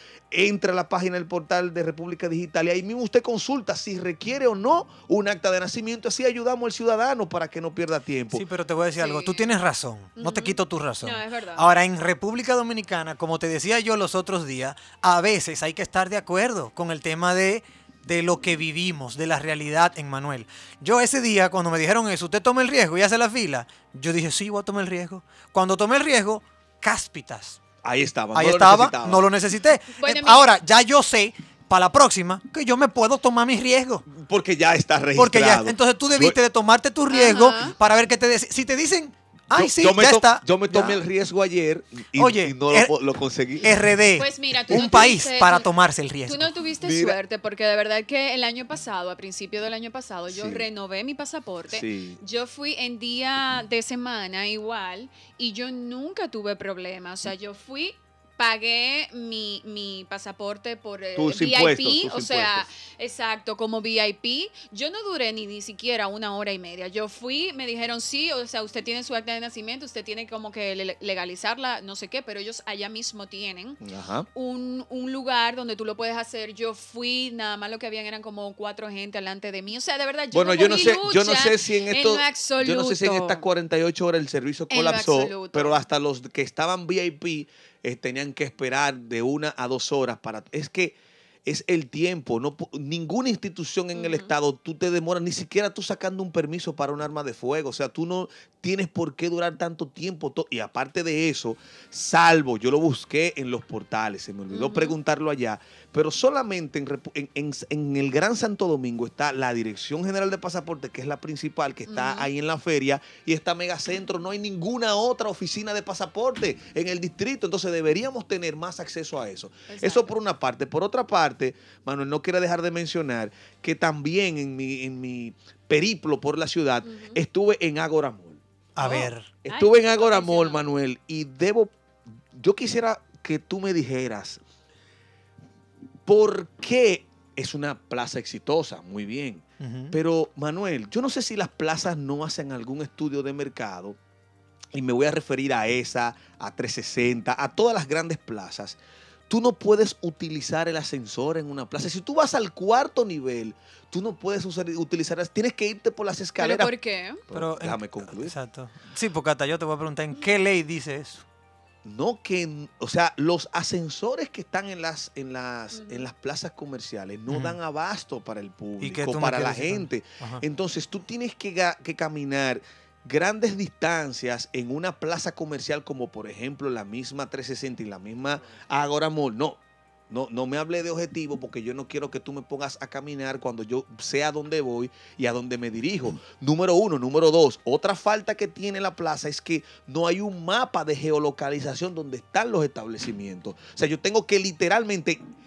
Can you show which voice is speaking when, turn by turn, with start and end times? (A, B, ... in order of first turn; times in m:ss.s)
0:00.3-0:08.4 A
0:08.3-0:27.6 B
0:09.0-0:09.5 C
0:10.2-0:11.7 C
0:27.8-0:29.2 A
0:28.3-0:34.0 B
0:30.0-0:30.5 C
0:34.1-0:36.4 A
0:35.2-0:41.0 B
0:37.1-0:37.7 C
0:39.5-0:43.7 A
0:42.1-0:42.9 B
0:43.6-0:46.5 B
0:44.1-0:45.7 C
0:44.7-0:45.0 A
0:46.2-1:13.8 C
0:46.8-0:47.2 A
0:50.3-0:50.6 A
0:51.7-0:52.2 A
1:01.2-1:02.7 A
1:13.8-1:14.3 A
1:14.3-1:23.4 C
1:20.3-2:08.4 A
1:24.7-1:25.8 C
1:33.9-1:34.3 C
1:44.5-1:45.0 C
1:51.8-1:52.3 C
1:59.7-2:00.1 C
2:06.8-2:07.2 C
2:08.8-2:09.3 B
2:08.8-2:10.6 C
2:09.4-2:11.7 A
2:12.3-2:14.4 A
2:16.0-2:24.0 A
2:19.6-2:20.0 B
2:24.7-2:36.7 A
2:36.4-2:37.2 C
2:37.3-2:38.3 A
2:37.3-2:41.2 B
2:41.8-3:15.2 A
2:45.7-2:46.1 C
2:47.3-2:47.6 B
2:48.8-2:50.4 B